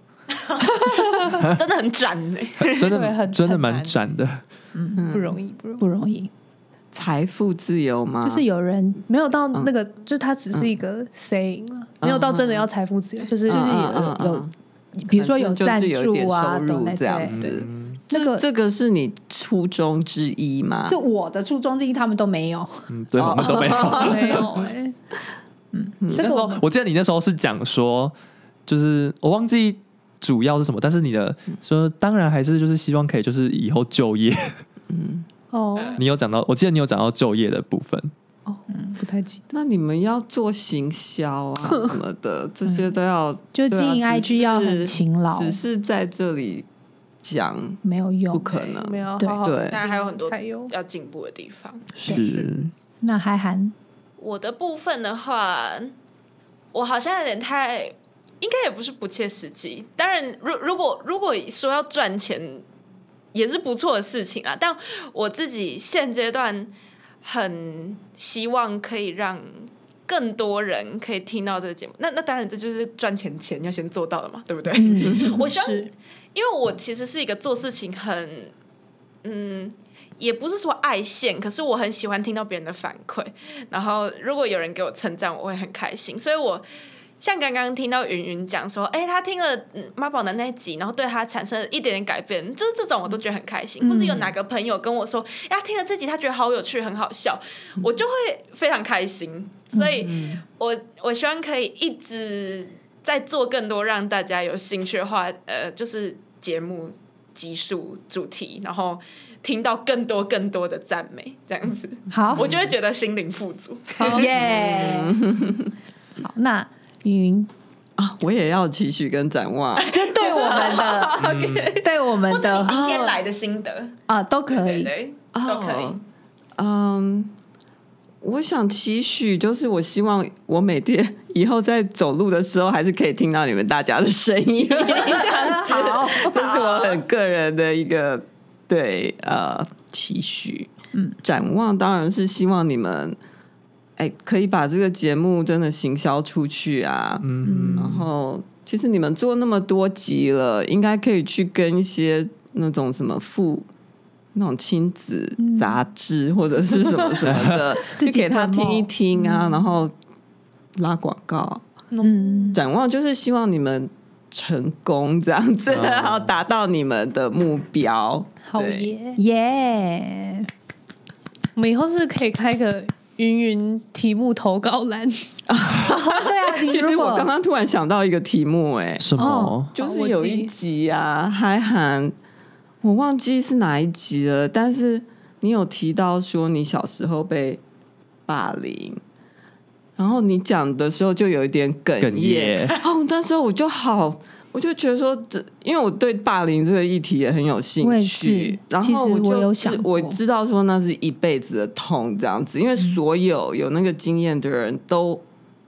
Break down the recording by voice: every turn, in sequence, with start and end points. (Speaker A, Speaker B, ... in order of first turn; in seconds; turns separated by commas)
Speaker A: 0.4-2.9, Speaker B: 0.7-1.3, Speaker C: 1.3-1.6, Speaker C: 2.6-4.4, Speaker B: 2.8-4.0, Speaker D: 4.7-5.1, Speaker E: 4.9-5.4, Speaker B: 5.1-5.8, Speaker D: 5.8-6.3, Speaker E: 6.9-8.4, Speaker D: 8.2-9.0, Speaker B: 9.1-13.9, Speaker E: 12.0-12.7, Speaker D: 13.5-18.4, Speaker E: 13.5-14.5, Speaker E: 15.1-21.0, Speaker C: 17.3-18.0, Speaker D: 20.9-22.9, Speaker C: 22.9-24.5, Speaker E: 23.1-24.4, Speaker B: 23.9-24.9, Speaker D: 25.7-26.6, Speaker E: 26.0-26.3, Speaker C: 26.1-28.1, Speaker C: 28.6-34.6, Speaker E: 34.9-35.2, Speaker B: 35.5-36.0, Speaker C: 36.0-38.1, Speaker B: 38.5-39.5, Speaker E: 39.5-46.6, Speaker D: 43.5-45.6, Speaker E: 47.2-49.8, Speaker D: 47.8-48.5, Speaker A: 48.4-48.8, Speaker B: 48.8-50.7, Speaker A: 49.6-52.4, Speaker C: 51.9-52.7, Speaker D: 53.0-53.7, Speaker A: 54.2-55.9, Speaker A: 56.7-62.6, Speaker A: 63.3-66.7, Speaker A: 67.2-78.5, Speaker D: 74.7-75.4, Speaker E: 75.0-75.5, Speaker B: 75.4-75.9, Speaker A: 79.2-86.7, Speaker A: 87.2-114.3, Speaker D: 93.8-94.3, Speaker E: 100.0-100.4, Speaker D: 112.1-112.5, Speaker B: 114.0-114.3, Speaker D: 114.0-115.3, Speaker E: 114.3-115.7, Speaker D: 116.2-117.5, Speaker E: 118.0-121.9, Speaker A: 119.8-121.2, Speaker D: 119.9-122.8, Speaker C: 121.2-121.8, Speaker A: 122.3-123.9, Speaker E: 122.7-123.2, Speaker D: 124.1-124.9, Speaker A: 124.5-126.0, Speaker E: 125.3-126.0, Speaker E: 126.6-127.3, Speaker E: 128.2-140.7, Speaker D: 134.9-136.2, Speaker A: 135.2-137.0, Speaker E: 141.2-143.2, Speaker E: 144.0-147.2, Speaker C: 147.2-148.1, Speaker D: 147.4-148.0, Speaker E: 147.8-153.7, Speaker E: 154.3-159.9, Speaker D: 155.4-155.8, Speaker C: 157.2-157.8, Speaker D: 157.9-159.6, Speaker E: 160.8-161.6, Speaker B: 161.9-162.6, Speaker D: 162.0-162.6, Speaker E: 162.5-168.9, Speaker C: 165.7-166.2, Speaker B: 168.4-169.2, Speaker D: 169.2-170.5, Speaker B: 171.6-175.3, Speaker E: 175.5-182.1, Speaker D: 175.8-177.3, Speaker C: 179.0-179.7, Speaker D: 179.2-179.6, Speaker B: 179.7-180.5, Speaker E: 182.8-187.6, Speaker E: 188.3-189.0, Speaker E: 190.0-205.2, Speaker C: 192.0-192.8, Speaker D: 197.8-200.2